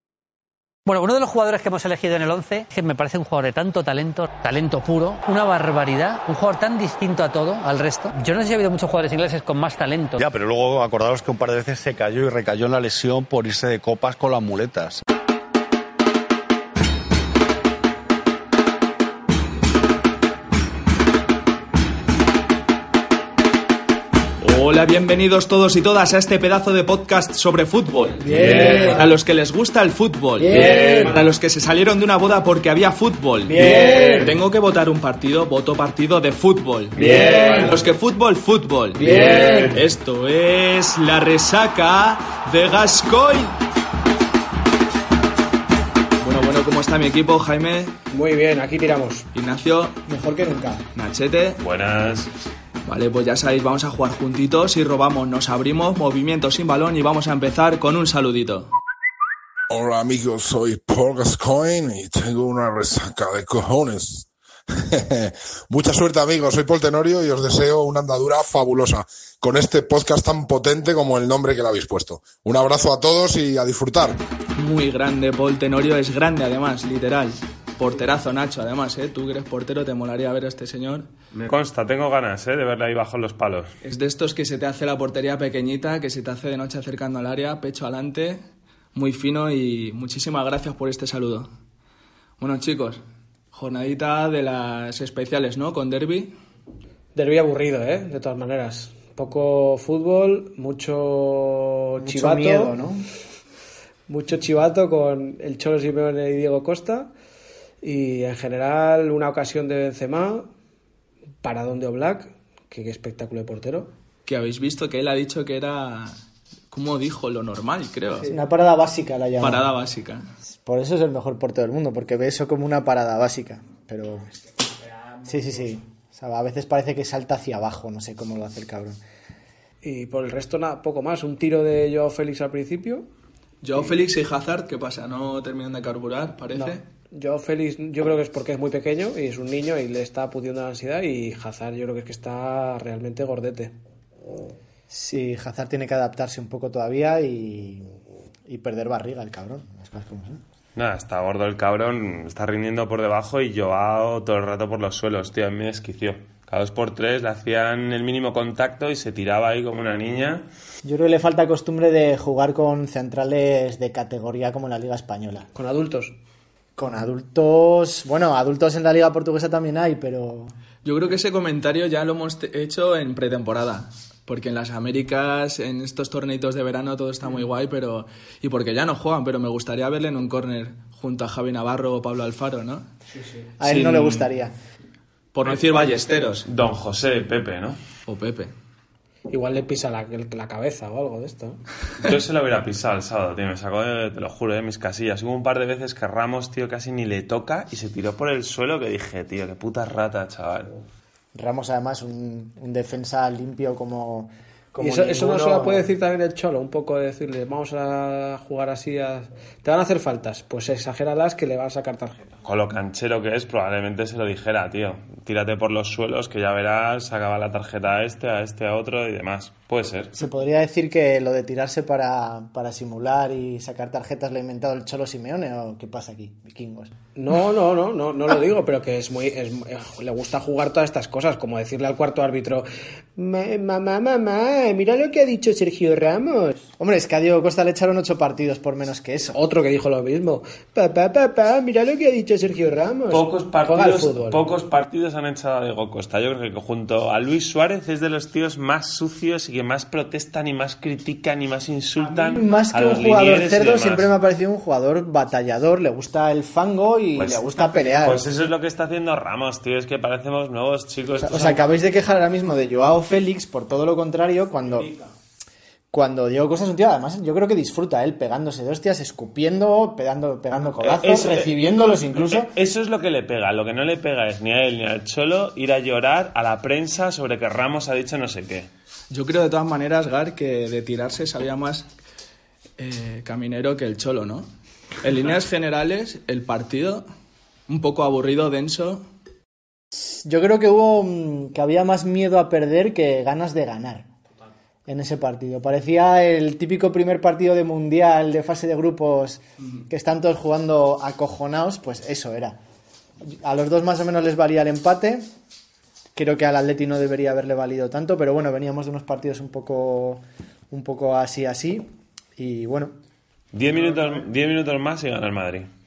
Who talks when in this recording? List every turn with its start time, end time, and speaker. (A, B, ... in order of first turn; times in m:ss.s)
0:00.8-0:10.2 A
0:10.2-0:15.0 B
0:24.4-0:43.6 C
0:28.2-0:29.0 D
0:28.3-0:29.0 E
0:30.5-0:31.1 E
0:30.5-0:31.1 D
0:33.5-0:34.3 E
0:33.5-0:34.3 D
0:37.0-0:37.7 E
0:37.0-0:37.6 D
0:39.0-0:39.8 E
0:39.0-0:39.7 D
0:46.2-0:47.9 C
0:48.1-0:49.3 D
0:49.3-0:50.0 C
0:50.1-0:50.9 F
0:50.9-0:51.6 C
0:51.6-0:52.3 E
0:52.8-0:58.7 C
0:59.7-1:14.2 G
1:14.5-1:21.1 C
1:21.4-1:23.7 E
1:23.8-1:28.4 C
1:28.9-1:31.5 C
1:32.4-1:33.0 C
1:33.5-1:36.3 C
1:37.1-1:42.7 D
1:42.0-1:43.0 F
1:44.1-1:47.1 D
1:47.8-1:50.5 D
1:51.4-1:53.9 D
1:54.2-1:56.2 C
1:56.7-1:58.3 C
1:58.2-1:59.6 F
1:59.4-2:00.3 C
2:00.5-2:04.3 F
2:05.2-2:09.0 F
2:09.8-2:13.1 D
2:13.6-2:16.8 C
2:16.5-2:23.7 D
2:24.9-2:27.9 F
2:28.5-2:30.4 F
2:30.8-2:40.4 E
2:40.8-2:45.5 F
2:45.5-2:46.1 D
2:46.8-2:50.5 F
2:50.8-3:02.9 C
3:03.2-3:03.5 D
3:03.6-3:04.5 F
3:03.6-3:04.3 C
3:05.3-3:06.5 C
3:06.4-3:07.8 E
3:08.0-3:08.5 C
3:09.3-3:11.6 D
3:12.0-3:20.7 E
3:21.3-3:25.9 F
3:24.8-3:32.4 D
3:32.4-3:40.2 E
3:40.2-3:46.9 F
3:47.1-3:56.6 D
3:56.8-3:59.4 F
3:59.3-4:04.4 D
4:03.1-4:14.1 E
4:12.0-4:18.2 F
4:17.2-4:21.7 E
4:21.2-4:24.9 F
4:25.9-4:32.5 F
4:30.8-4:31.7 E
4:32.3-4:38.7 E
4:39.1-4:41.9 C
4:42.8-4:44.5 C
4:45.0-4:47.0 C
4:47.7-4:49.0 C
4:50.2-4:54.0 F
4:54.9-5:02.6 F
5:03.2-5:05.2 F
5:06.1-5:12.9 F
5:13.5-5:15.7 E